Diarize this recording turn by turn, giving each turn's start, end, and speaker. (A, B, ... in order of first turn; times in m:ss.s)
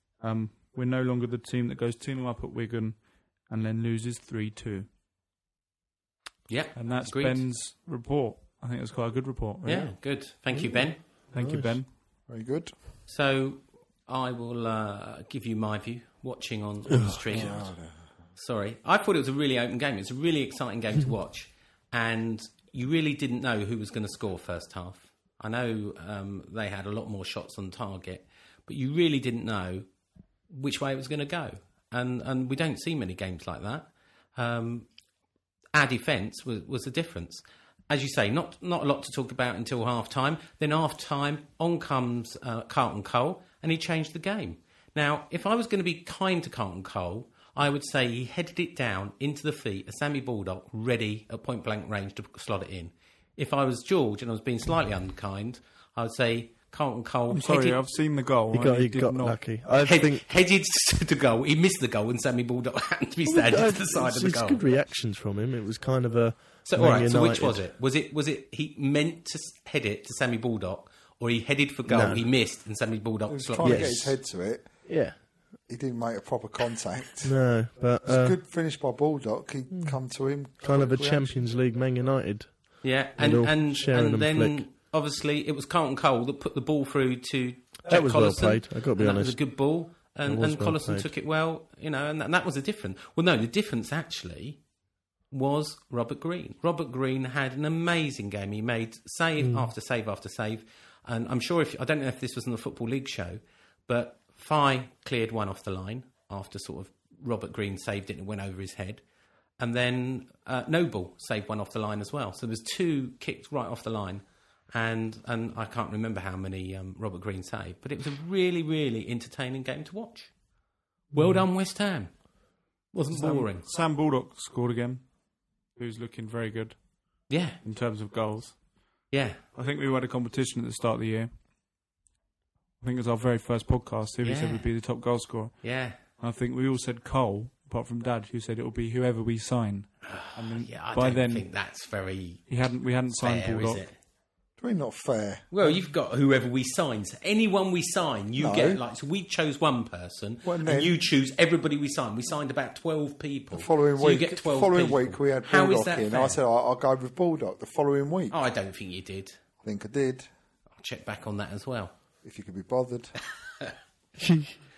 0:00.2-0:04.9 A
0:06.5-0:07.4 B
0:06.8-0:09.9 A
0:09.6-0:11.0 B
0:09.6-0:11.8 C
0:11.3-0:11.9 A
0:12.3-0:12.7 D
0:13.1-0:17.7 B
0:16.9-0:17.5 C
0:17.3-0:18.1 D
0:18.4-0:29.9 B
0:30.5-0:34.9 B
0:35.7-0:57.8 B
0:57.3-0:59.4 A
0:58.5-1:00.2 C
0:59.8-1:04.6 B
1:03.2-1:07.7 C
1:06.6-1:14.0 B
1:11.9-1:12.3 C
1:13.3-1:15.0 D
1:13.6-1:14.2 C
1:14.8-1:15.2 C
1:15.7-1:17.4 D
1:17.2-1:18.4 C
1:18.0-1:21.4 D
1:19.7-1:20.0 C
1:20.5-1:24.6 C
1:22.8-1:34.6 B
1:27.9-1:29.7 C
1:30.2-1:31.1 C
1:35.3-1:49.0 B
1:39.4-1:39.7 C
1:49.6-2:00.3 B
2:01.1-2:01.4 A
2:01.1-2:02.2 B
2:02.9-2:03.7 B
2:03.1-2:05.1 A
2:05.7-2:06.9 A
2:07.3-2:07.6 B
2:07.6-2:08.9 A
2:09.1-2:09.4 B
2:09.5-2:11.3 A
2:12.8-2:21.5 A
2:14.2-2:14.7 B
2:15.6-2:16.0 B
2:20.0-2:22.5 B
2:22.5-2:23.8 A
2:23.1-2:23.9 B
2:24.6-2:25.7 D
2:25.5-2:36.4 B
2:28.4-2:28.8 D
2:30.4-2:31.0 D
2:33.5-2:38.4 D
2:38.3-2:39.4 B
2:39.6-2:40.3 D
2:40.8-2:41.9 B
2:42.2-2:43.2 D
2:44.2-2:44.5 C